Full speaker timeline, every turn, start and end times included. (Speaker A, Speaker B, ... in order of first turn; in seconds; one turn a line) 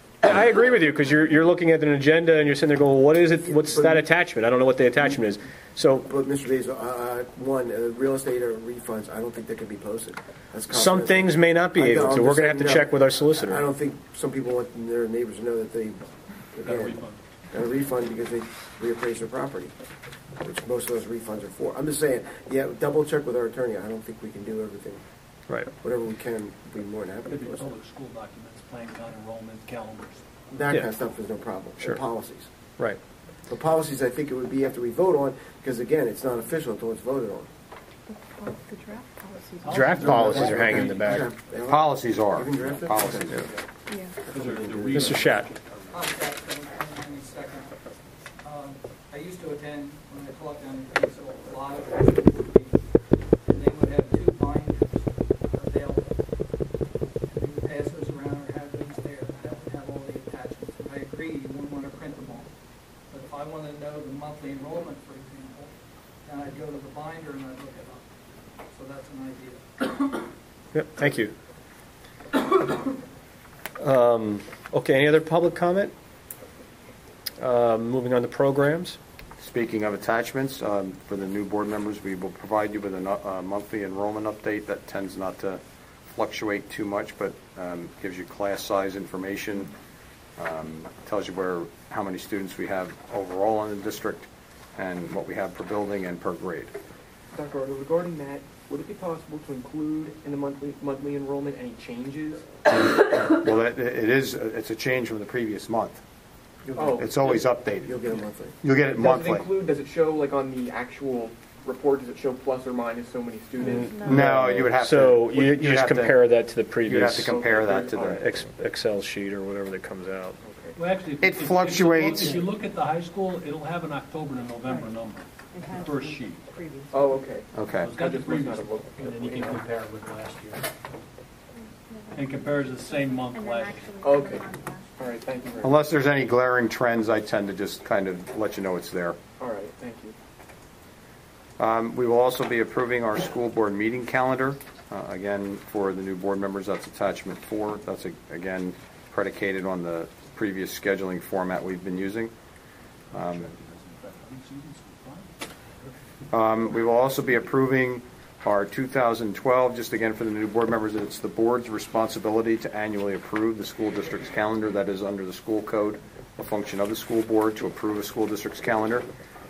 Speaker A: 0.2-6.1
Speaker B: 3.4-4.1
Speaker B: 6.0-16.0
Speaker A: 10.7-13.6
Speaker B: 16.5-16.9
Speaker C: 16.6-17.2
Speaker B: 17.5-19.7
Speaker B: 20.4-25.0
Speaker B: 25.7-27.7
Speaker C: 27.3-30.2
Speaker B: 30.5-32.5
Speaker B: 33.5-37.5
Speaker D: 38.1-40.4
Speaker C: 39.6-41.2
Speaker A: 39.7-41.3
Speaker B: 40.3-43.5
Speaker E: 41.7-43.5
Speaker C: 44.2-46.1
Speaker B: 44.3-45.3
Speaker A: 44.9-45.5
Speaker F: 45.9-47.7
Speaker F: 48.4-52.8
Speaker F: 53.4-56.2
Speaker F: 57.3-62.5
Speaker F: 63.1-65.7
Speaker F: 66.2-68.0
Speaker F: 68.7-70.2
Speaker A: 70.7-71.3
Speaker A: 73.8-75.9
Speaker A: 77.4-79.0
Speaker E: 79.4-89.7
Speaker E: 90.4-96.7
Speaker G: 97.3-102.5
Speaker E: 102.7-106.0
Speaker G: 106.8-107.3
Speaker E: 106.8-108.0
Speaker B: 107.8-108.5
Speaker E: 108.6-109.5
Speaker G: 108.9-114.1
Speaker A: 113.6-117.3
Speaker E: 114.0-116.2
Speaker E: 116.8-118.2
Speaker G: 117.3-118.2
Speaker A: 118.0-120.4
Speaker G: 120.4-120.7
Speaker C: 120.7-126.5
Speaker E: 121.2-122.3
Speaker D: 125.5-127.2
Speaker G: 126.9-129.6
Speaker E: 127.5-127.9
Speaker C: 127.8-130.7
Speaker C: 132.1-133.9
Speaker D: 133.2-135.5
Speaker G: 134.0-134.4
Speaker G: 134.9-135.7
Speaker E: 135.6-139.2
Speaker G: 139.4-140.1
Speaker E: 141.6-152.3
Speaker E: 153.1-153.5
Speaker C: 153.3-155.3
Speaker E: 156.3-169.1